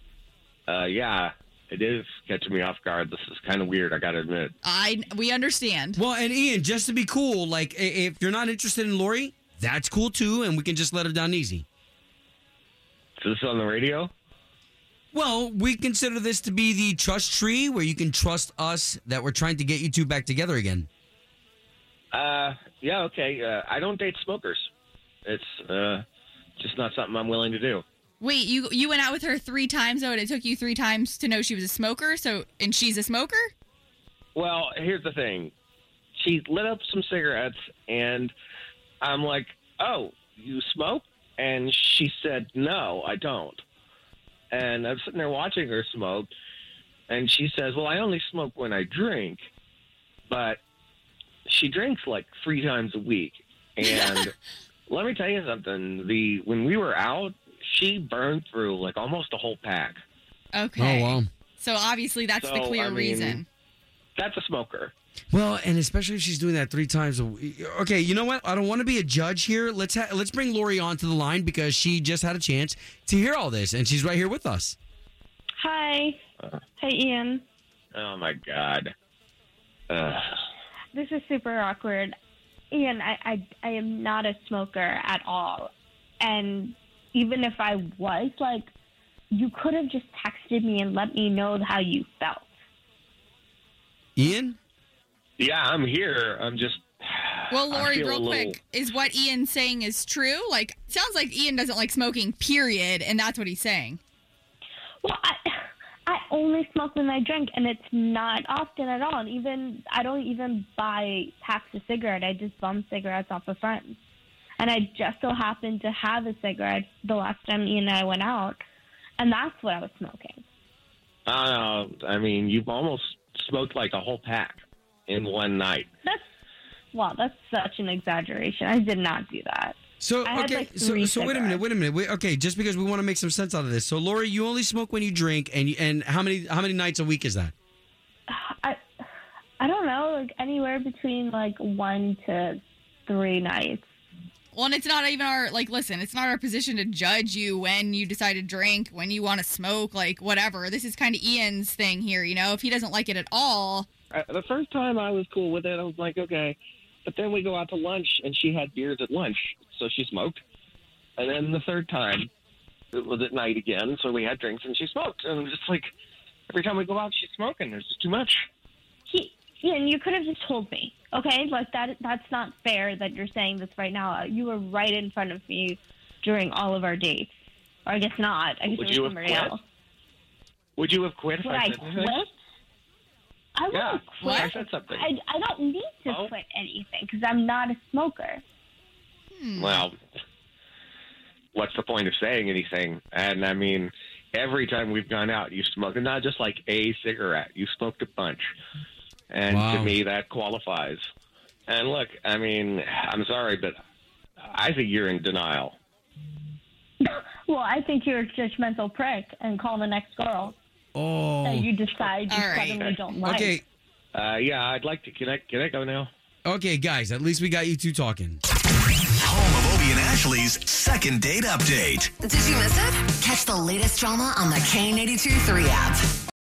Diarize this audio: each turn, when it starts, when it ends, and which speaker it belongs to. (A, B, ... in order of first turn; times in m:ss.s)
0:00.7-0:04.5 A
0:04.6-0:06.0 B
0:06.0-0:11.6 C
0:13.2-0:14.1 A
0:15.1-0:20.9 C
0:22.1-0:24.7 A
0:25.2-0:26.0 A
0:26.6-0:27.8 A
0:28.2-0:33.5 B
0:34.3-0:35.5 A
0:36.2-0:38.3 A
0:39.0-0:43.6 A
0:44.5-0:46.3 A
0:47.1-0:49.4 A
0:50.3-0:50.6 A
0:51.4-0:54.3 A
0:53.8-0:54.2 B
0:54.9-1:00.0 A
1:00.5-1:03.4 B
1:00.8-1:01.3 C
1:02.4-1:03.4 A
1:04.2-1:04.9 A
1:05.3-1:14.8 C
1:15.6-1:16.2 D
1:16.8-1:17.4 D
1:17.9-1:18.9 A
1:19.9-1:20.4 A
1:20.9-1:22.1 D
1:22.7-1:28.7 D
1:29.3-1:32.5 D
1:34.2-1:34.6 C
1:35.4-1:38.6 A
1:37.5-1:44.0 B
1:45.0-1:45.5 D
1:46.0-1:54.0 D
1:54.6-1:58.6 D
1:59.2-2:00.4 D
2:01.3-2:05.9 A
2:06.9-2:11.6 D
2:10.0-2:17.5 C
2:18.3-2:18.8 D
2:19.6-2:23.9 D
2:24.5-2:33.9 B
2:34.1-2:40.4 A
2:41.2-2:42.3 A
2:42.9-2:45.9 A
2:46.5-2:48.4 A
2:49.1-2:57.3 D
2:57.8-2:59.6 D
2:58.7-2:59.6 A
3:00.8-3:02.2 A
3:01.4-3:02.3 D
3:03.5-3:08.4 D
3:03.7-3:05.1 A
3:04.2-3:04.5 B
3:09.3-3:09.8 B
3:09.6-3:10.0 A
3:11.5-3:18.4 A
3:19.3-3:21.0 A
3:19.5-3:20.0 C
3:21.7-3:23.8 A
3:24.4-3:25.8 A
3:27.0-3:30.6 D
3:30.9-3:31.7 C
3:31.4-3:33.6 D
3:32.3-3:32.7 B
3:32.6-3:33.0 A
3:33.2-3:33.6 C
3:34.1-3:36.1 A
3:36.4-3:38.4 C
3:39.2-3:42.1 E
3:42.2-3:46.0 F